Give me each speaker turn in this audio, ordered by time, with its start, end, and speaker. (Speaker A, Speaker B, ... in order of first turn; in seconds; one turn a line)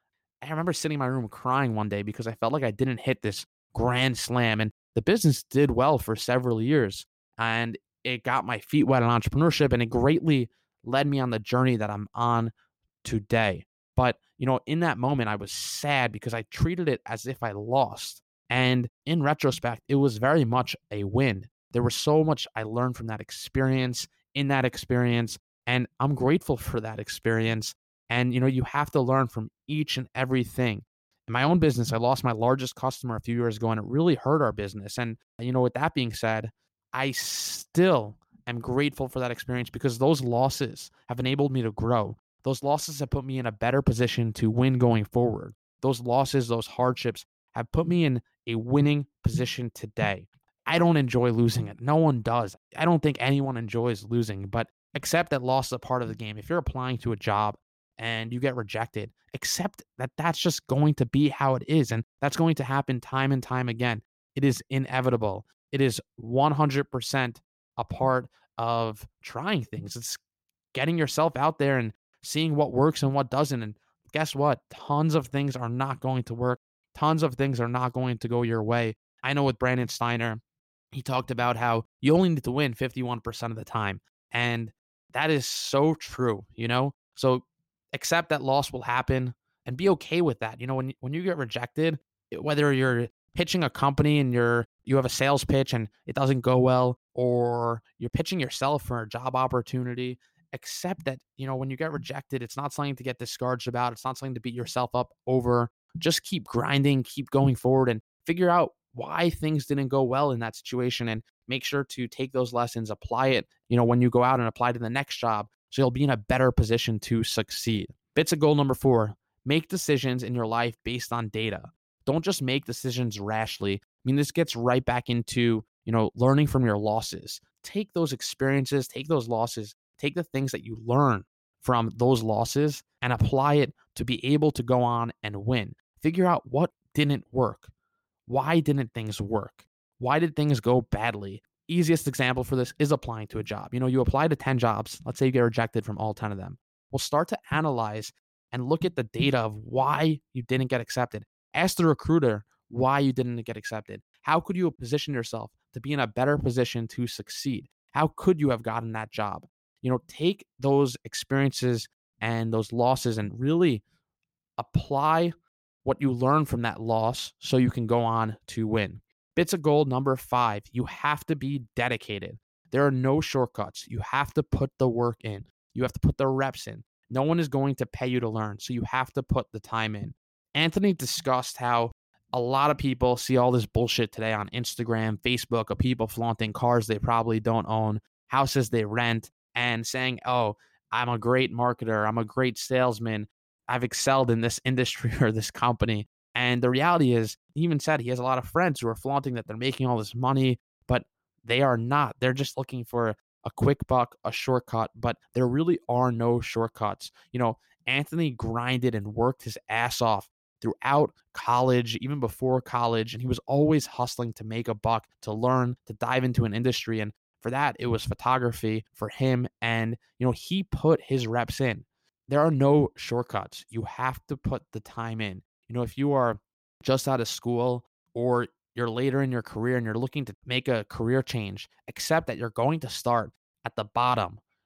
Speaker A: 0.4-12.5
Speaker A: 13.0-70.2
Speaker A: 70.7-80.4
Speaker A: 80.9-137.7
Speaker A: 138.3-163.8
Speaker A: 164.6-234.4